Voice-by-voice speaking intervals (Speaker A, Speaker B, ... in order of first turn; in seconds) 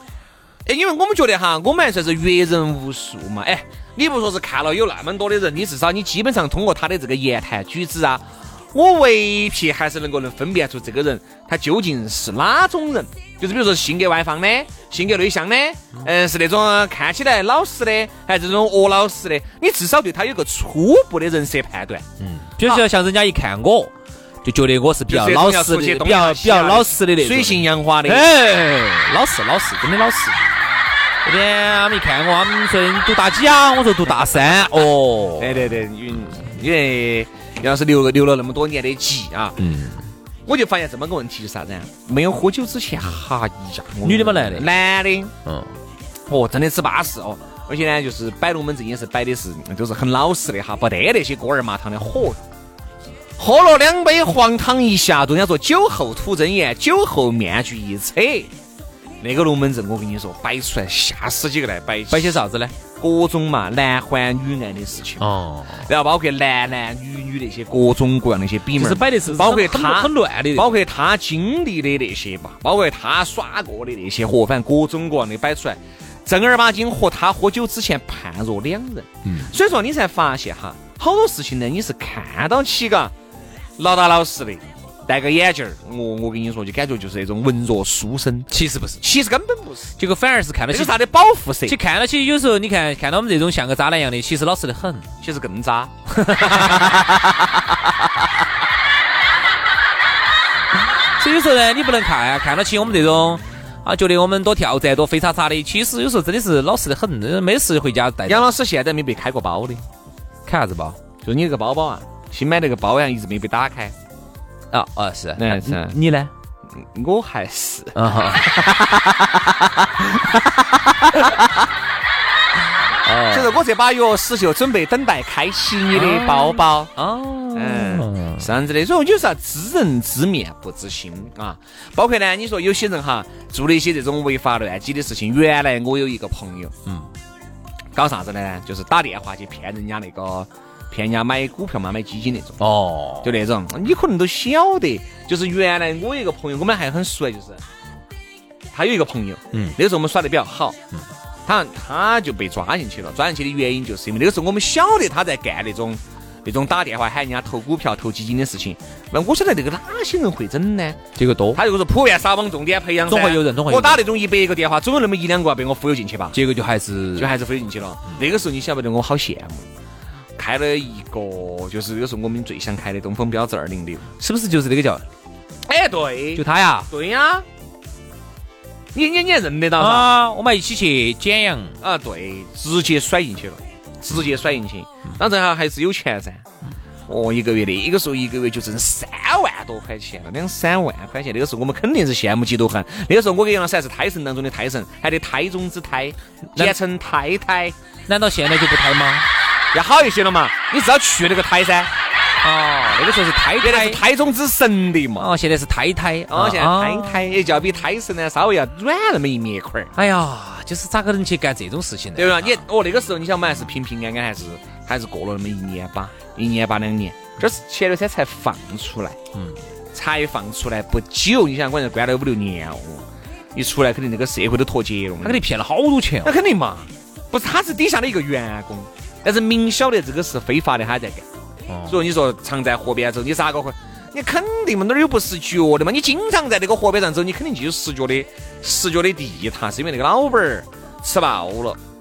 Speaker A: 0.6-22.0, 25.1-28.2, 35.4-39.6, 40.5-45.3, 46.3-52.4, 53.4-58.5, 59.2-62.4, 63.0-65.3, 65.8-83.1, 83.8-88.5, 89.0-90.0, 90.7-91.8, 95.2-97.2, 108.3-109.8, 111.2-113.9, 115.4-116.0, 116.8-119.1, 123.3-126.9, 127.5-136.7, 137.9-142.6, 143.2-147.6, 148.7-150.8, 151.4-161.0, 161.5-166.4, 167.2-169.7, 170.3-174.1, 175.7-177.4, 178.9-180.1, 181.8-186.4, 187.1-197.7, 199.7-201.9, 203.6-205.3, 206.3-209.9, 212.2-219.2, 219.9-225.4, 226.2-231.2, 231.9-241.8
Speaker B: 22.2-23.9, 24.4-30.4, 31.2-35.7, 39.6-40.0, 44.0-44.7, 45.5-45.7, 62.1-62.8, 65.2-65.9, 68.7-70.8, 88.5-89.0, 90.0-91.0, 91.7-95.1, 96.4-96.9, 101.2-108.5, 110.5-111.0, 114.7-116.3, 117.9-118.5, 123.0-123.6, 125.9-128.5, 142.6-143.3, 161.2-161.6, 163.1-164.0, 166.3-167.3, 174.2-175.0, 176.3-176.9, 179.8-181.7, 198.1-199.3, 202.4-204.0, 205.2-207.4, 209.9-212.6, 219.3-219.6, 225.2-226.3, 231.7-232.0